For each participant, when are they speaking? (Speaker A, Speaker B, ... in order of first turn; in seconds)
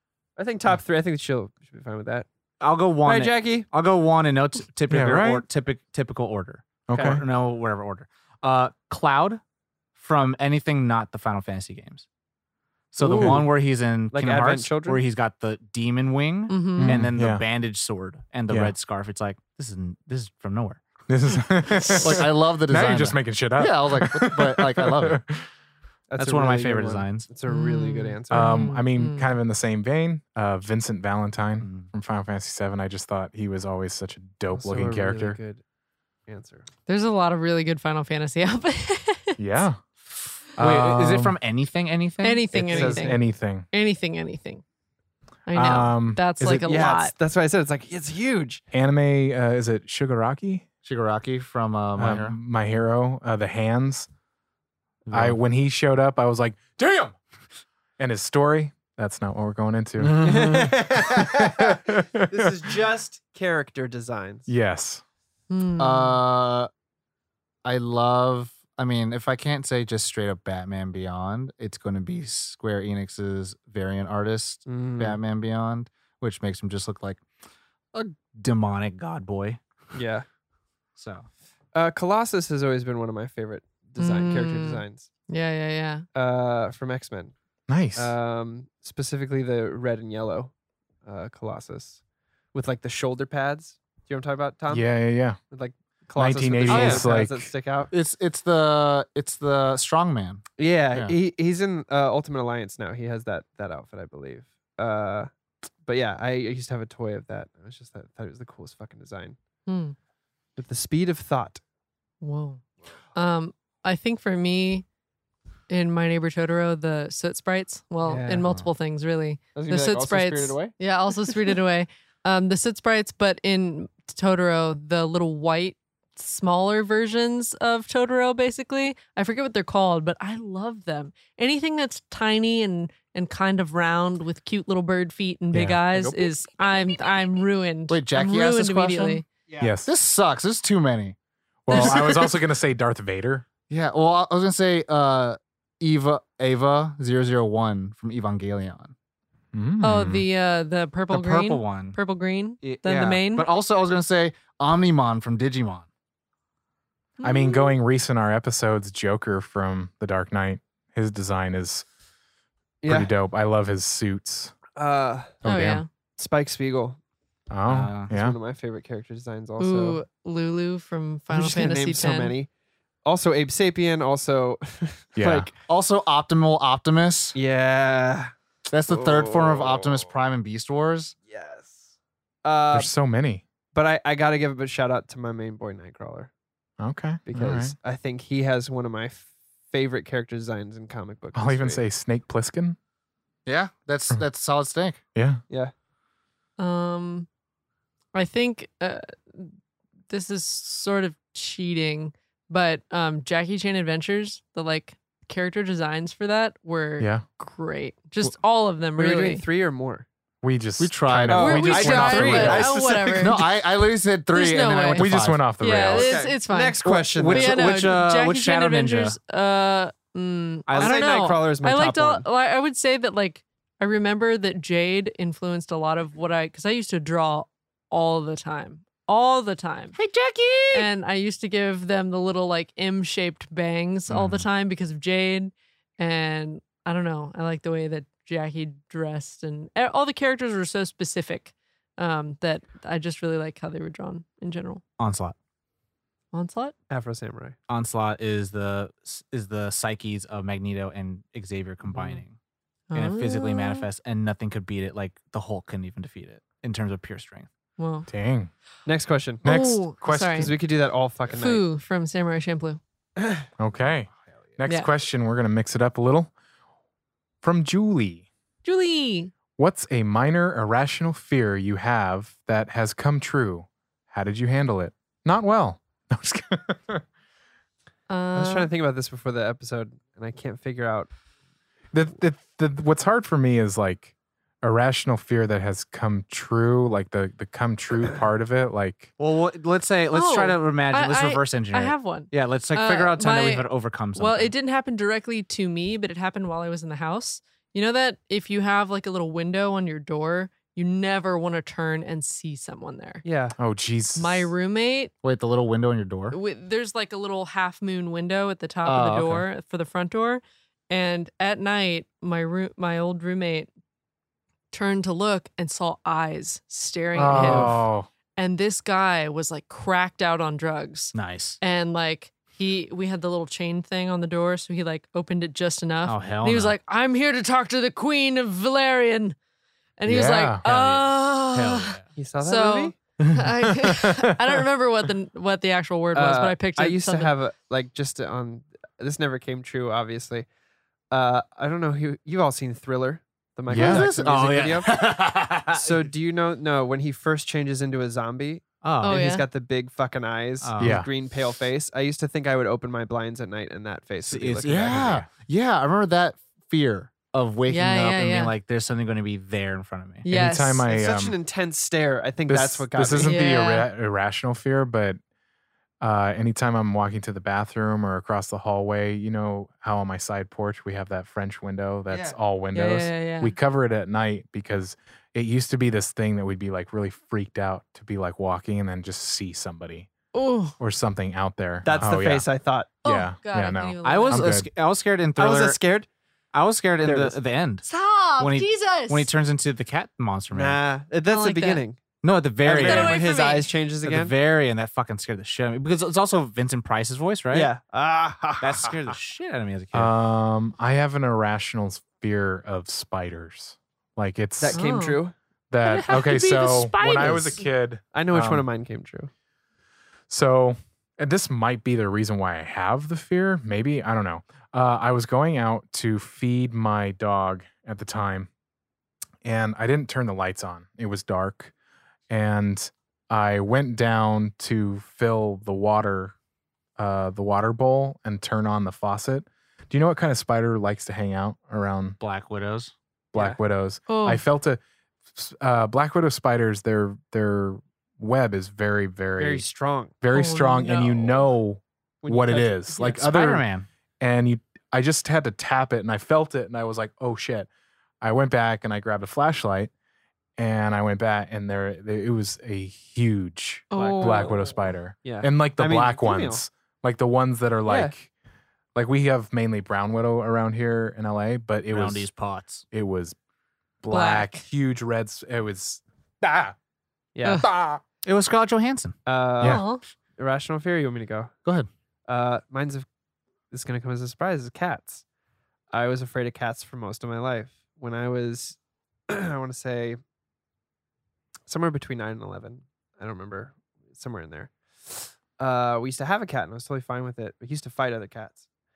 Speaker A: 0.4-2.3, 3.0-3.7, 6.9-7.2, 14.1-15.0, 26.1-28.7, 34.5-35.6, 36.3-36.7, 46.6-48.6, 60.2-64.5, 74.7-75.2, 79.9-80.2, 81.7-85.1, 86.1-87.3, 87.9-90.5, 91.0-92.0, 92.5-94.9, 95.5-97.9, 100.6-105.3, 105.8-109.3, 110.6-111.6, 118.0-118.5, 119.5-120.7, 162.8-163.1, 164.7-165.4, 166.2-167.0, 168.1-170.0, 171.3-172.5, 173.0-175.5, 177.3-178.3, 178.9-180.1, 181.3-181.9, 182.4-182.9, 183.7-186.3, 187.2-191.8, 209.0-210.1, 211.3-213.5, 215.9-217.7, 220.8-222.2, 246.9-247.6, 258.9-259.4, 260.3-261.6, 263.2-263.5, 278.3-281.1, 303.2-303.6, 332.2-332.9, 336.1-340.4, 341.1-345.0, 345.7-355.2, 360.9-363.4, 372.1-372.4, 381.8-382.9, 385.4-386.1, 387.0-387.4, 390.5-392.0, 392.6-394.3, 397.5-399.1, 404.6-405.3, 408.1-409.3, 433.3-433.6, 439.4-440.1, 442.2-443.2, 453.9-454.6, 455.2-456.6, 457.9-458.1, 467.3-467.7, 469.2-469.8, 470.4-471.5, 472.3-473.1, 473.7-475.2, 475.9-478.8, 479.3-480.2, 481.7-488.6
Speaker B: 2.6-9.4, 9.9-12.0, 12.9-20.8, 26.2-27.3, 31.6-31.9, 40.6-43.1, 78.0-79.6, 81.0-81.3, 167.7-168.1, 217.1-219.2, 220.7-221.0, 230.0-230.9, 245.0-245.3, 247.7-252.4, 252.9-257.5, 289.2-294.5, 321.1-321.6, 326.1-326.7, 330.7-332.1, 344.2-345.9, 348.8-349.3, 350.6-351.0, 354.2-355.2, 358.3-360.2, 384.0-385.8, 386.5-387.8, 388.4-390.8, 392.2-393.3, 394.0-397.7, 398.6-400.1, 407.1-407.4, 432.2-432.9, 443.1-443.9, 461.9-462.9, 468.2-469.1
Speaker C: 4.9-5.5, 6.9-7.2, 13.0-13.5, 16.8-17.4, 18.5-18.7, 21.1-25.4, 28.3-35.4, 39.4-39.8, 40.6-41.4, 42.6-43.7, 45.5-46.9, 48.7-50.6, 52.0-54.1, 55.1-57.2, 58.0-62.6, 64.5-65.0, 87.7-88.1, 94.7-95.4, 96.2-97.5, 135.5-136.3, 139.6-139.9, 141.7-143.4, 149.5-150.2, 157.2-161.8, 162.9-164.5, 165.4-165.8, 167.5-168.4, 175.2-175.5, 182.7-183.4, 186.8-187.7, 191.3-192.8, 195.1-195.4, 207.0-207.2, 210.4-212.8, 215.0-216.2, 234.1-234.4, 258.1-258.5, 259.4-260.5, 263.6-266.3, 267.4-268.3, 269.6-277.0, 281.9-289.1, 303.6-304.5, 317.1-318.1, 330.1-330.7, 333.9-334.6, 343.7-344.1, 350.8-351.1, 354.9-355.2, 360.3-361.3, 362.5-365.2, 366.0-380.1, 380.8-382.4, 383.0-384.7, 399.9-404.8, 405.7-408.6, 410.3-418.5, 419.4-421.7, 422.3-426.3, 427.0-432.2, 433.3-434.8, 435.3-439.6, 440.2-443.6, 444.2-447.7, 448.2-449.9, 450.6-458.3, 458.9-462.3, 462.9-463.4, 464.0-466.7, 467.6-468.0, 469.6-469.8
Speaker D: 13.0-13.4, 22.0-25.2, 50.8-52.4, 55.1-55.4, 60.0-60.5, 65.8-66.7, 67.6-77.2, 78.0-78.7, 96.7-97.0, 97.9-101.2, 137.9-139.2, 139.8-141.2, 143.7-148.9, 151.1-152.0, 152.6-155.8, 175.7-177.3, 178.7-181.1, 193.4-195.0, 210.8-215.4, 305.2-306.4, 308.8-309.4, 343.7-345.7, 354.6-358.4
Speaker E: 16.5-17.0, 27.5-29.3, 36.9-39.4, 42.2-44.6, 45.5-47.1, 65.5-66.2, 84.0-86.0, 109.7-109.9, 112.2-112.6, 113.1-114.8, 115.7-139.2, 141.7-142.2, 149.8-153.4, 157.2-157.7, 165.4-165.9, 169.6-172.3, 196.6-197.3, 198.1-199.5, 200.1-209.4, 211.4-213.4, 214.3-229.9, 230.7-244.8, 246.3-246.7, 251.9-252.2, 252.9-253.9, 257.8-258.1, 259.4-260.5, 261.3-262.8, 268.6-269.3, 278.1-278.7, 290.1-303.2, 304.1-305.1, 306.3-313.7, 314.7-317.8, 318.4-329.4, 330.0-337.3, 349.0-349.4, 357.7-358.5, 360.2-360.9, 363.2-363.9, 372.7-373.5, 380.3-380.8, 383.0-384.5, 387.9-389.3, 391.3-391.8, 392.8-393.7, 404.7-405.2, 405.8-407.7, 434.1-434.4, 440.3-441.5, 453.9-454.8, 464.1-464.6, 469.6-470.0